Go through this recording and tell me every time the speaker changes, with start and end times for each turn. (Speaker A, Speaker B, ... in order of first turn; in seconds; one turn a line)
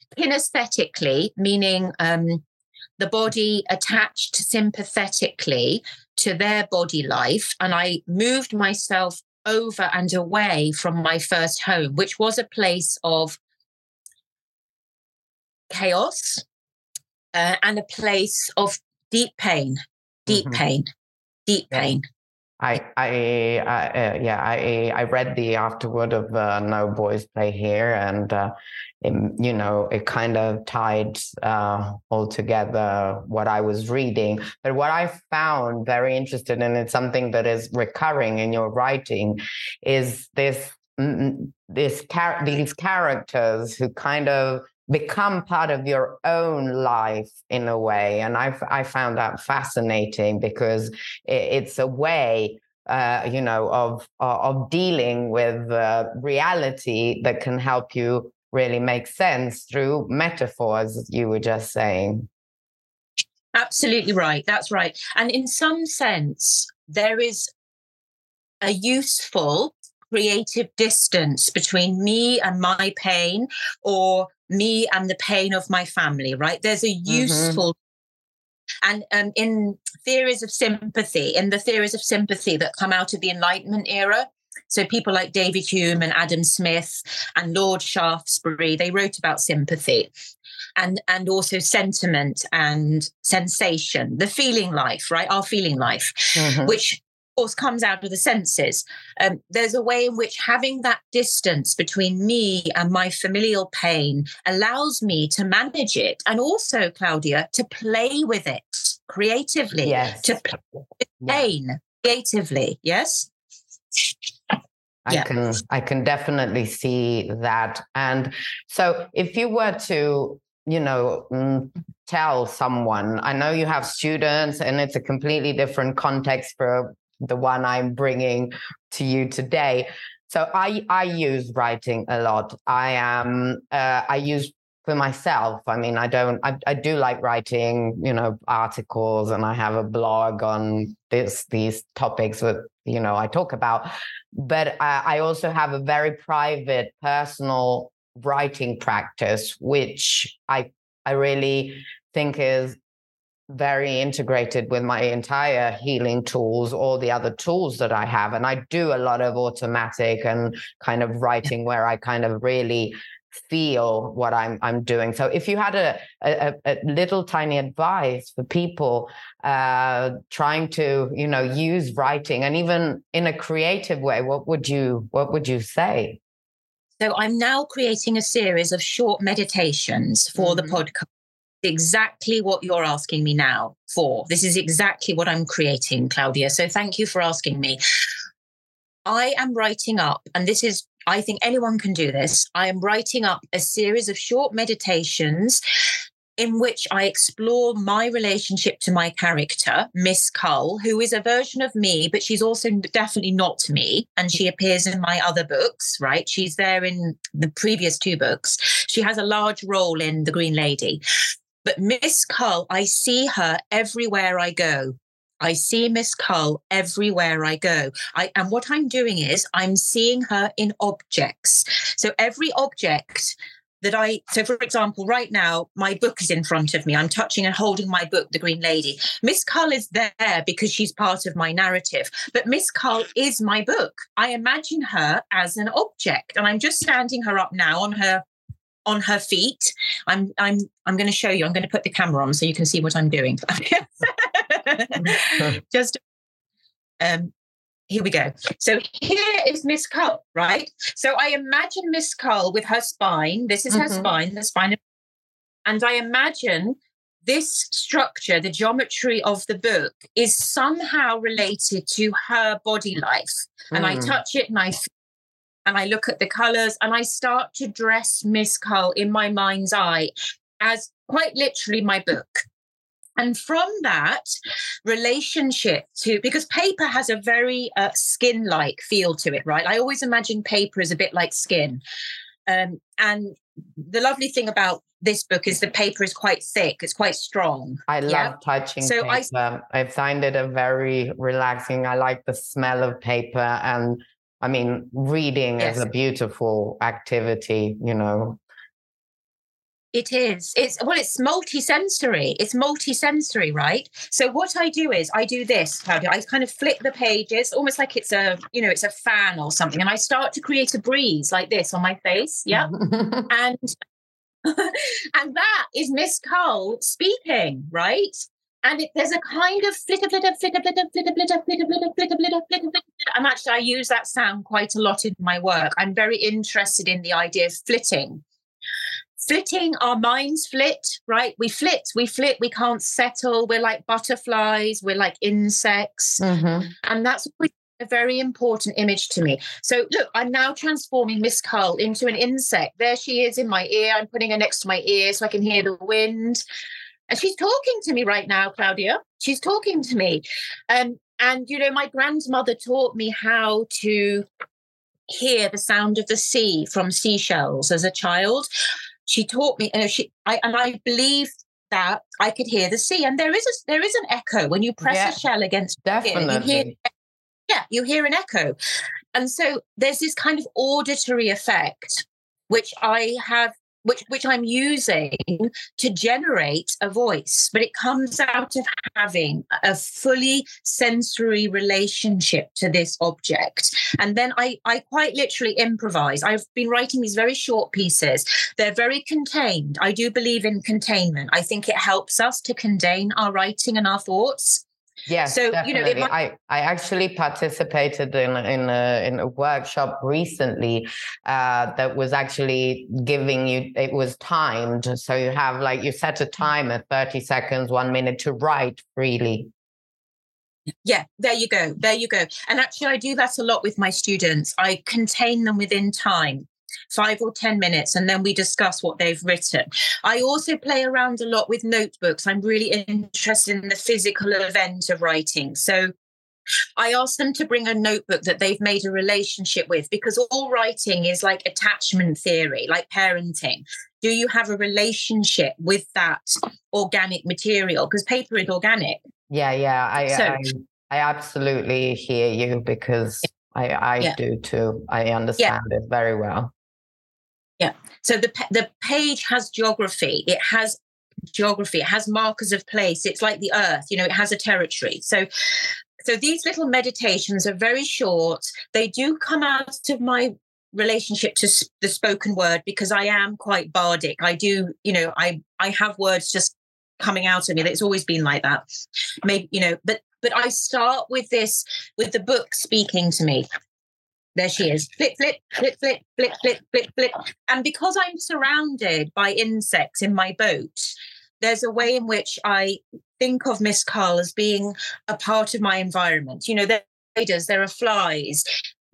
Speaker A: 0.2-2.4
Speaker A: 3.0-13.4
Speaker A: 15.7-16.4
Speaker A: 17.3-20.9
Speaker B: 20.3-20.6
Speaker A: 21.5-22.0
Speaker B: 22.6-62.3
Speaker A: 63.5-67.5
Speaker A: 68.6-77.8
Speaker B: 77.1-77.6
Speaker A: 78.8-90.1
Speaker A: 90.8-110.6
Speaker B: 96.4-96.8
Speaker B: 109.8-110.4
Speaker A: 111.2-113.3
Speaker B: 115.1-152.8
Speaker B: 153.5-176.2
Speaker A: 177.0-181.1
Speaker B: 180.4-180.8
Speaker A: 181.6-187.8
Speaker A: 189.1-195.6
Speaker A: 196.4-211.0
Speaker A: 211.7-238.2
Speaker A: 238.9-246.0
Speaker A: 247.0-247.3
Speaker A: 247.9-254.8
Speaker B: 253.7-254.1
Speaker A: 255.7-264.9
Speaker B: 263.7-264.2
Speaker A: 265.7-272.4
Speaker A: 273.2-274.3
Speaker A: 274.9-281.8
Speaker A: 282.5-289.3
Speaker B: 287.9-298.4
Speaker A: 295.6-295.9
Speaker A: 299.9-312.7
Speaker B: 312.6-313.3
Speaker A: 313.3-313.7
Speaker A: 314.4-328.2
Speaker A: 329.2-336.3
Speaker B: 336.2-336.7
Speaker A: 336.8-346.4
Speaker A: 347.1-354.2
Speaker A: 355.1-358.5
Speaker A: 359.1-366.9
Speaker B: 364.8-365.2
Speaker B: 365.8-366.7
Speaker A: 367.5-368.6
Speaker A: 369.1-394.6
Speaker B: 395.1-409.5
Speaker A: 395.2-396.1
Speaker A: 410.9-425.9
Speaker A: 426.8-439.0
Speaker B: 439.3-446.5
Speaker A: 440.0-440.4
Speaker A: 447.6-468.6
Speaker A: 469.2-473.5
Speaker A: 474.4-488.5